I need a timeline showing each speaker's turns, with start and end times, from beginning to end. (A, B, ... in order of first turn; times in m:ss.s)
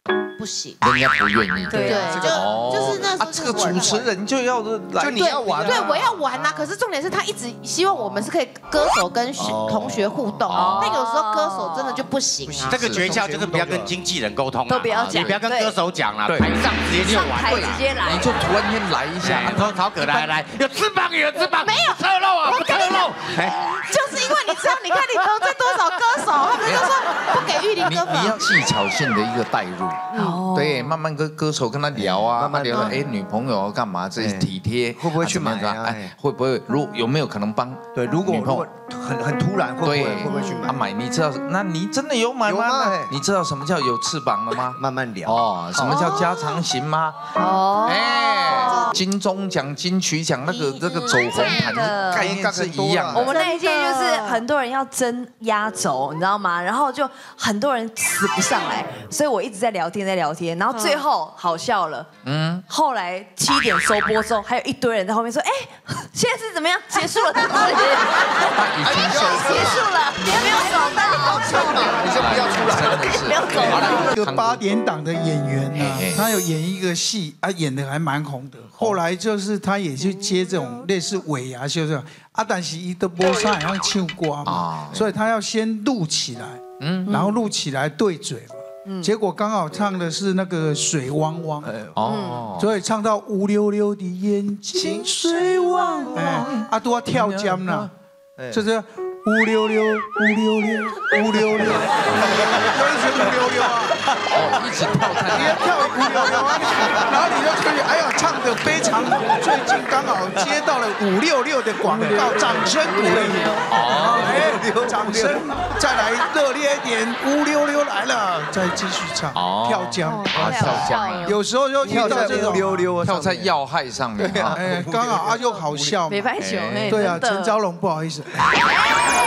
0:00.4-0:00.8 A
0:00.8-0:06.1 B
0:01.7-0:02.3 C
0:01.8-0:04.1 A
0:02.1-0:03.2 D
0:05.0-0:06.2 D
0:05.2-0:12.8 A
0:09.4-0:10.2 D
0:10.5-0:10.8 B
0:10.5-0:10.9 E
0:10.5-0:12.1 C
0:11.4-0:11.9 F
0:12.5-0:13.9 D
0:12.7-0:13.1 B
0:12.7-0:17.8 E
0:14.7-0:15.8 C
0:15.0-0:15.4 B
0:16.3-0:16.5 B
0:17.0-0:18.4 C
0:17.0-0:17.4 B
0:18.0-0:20.4 B
0:19.2-0:23.7 E
0:21.5-0:28.4 A
0:26.6-0:26.9 B
0:27.8-0:38.7 B
0:30.1-0:30.4 A
0:30.2-0:31.0 C
0:31.9-0:33.1 D
0:34.2-0:36.1 D
0:37.9-0:40.8 D
0:39.8-0:53.4 B
0:40.3-0:40.6 C
0:42.4-0:43.1 D
0:44.6-0:46.2 D
0:47.4-0:49.0 C
0:48.5-0:49.0 A
0:50.5-0:52.3 C
0:52.1-0:53.3 D
0:53.1-1:02.1 C
0:53.3-0:54.4 A
1:00.7-1:01.0 A
1:02.2-1:02.6 B
1:02.7-1:12.4 C
1:08.4-1:09.8 B
1:08.8-1:09.9 D
1:11.1-1:13.8 D
1:12.1-1:14.6 B
1:13.0-1:14.1 C
1:13.8-1:14.4 A
1:13.9-1:31.7 F
1:15.7-1:16.2 B
1:24.4-1:25.1 B
1:26.8-1:27.2 B
1:27.1-1:27.4 C
1:28.9-1:29.1 C
1:31.6-1:32.0 D
1:31.9-1:32.7 B
1:32.1-1:32.4 C
1:32.6-1:37.9 F
1:34.7-1:36.4 D
1:35.6-1:37.9 B
1:38.4-1:38.6 D
1:38.5-1:43.9 F
1:41.7-1:42.7 A
1:41.8-1:43.7 D
1:44.3-1:46.0 B
1:45.4-2:02.8 F
1:46.0-1:47.2 D
1:46.2-1:46.9 A
1:48.8-1:49.4 D
1:50.3-1:50.6 D
1:51.8-1:55.5 D
1:53.7-1:54.6 B
1:59.4-2:01.4 B
2:00.1-2:01.4 C
2:01.8-2:03.6 D
2:01.9-2:02.6 A
2:03.0-2:04.6 B
2:04.2-2:06.0 D
2:04.6-2:06.3 F
2:06.1-2:07.6 C
2:06.4-2:07.2 B
2:06.9-2:08.3 F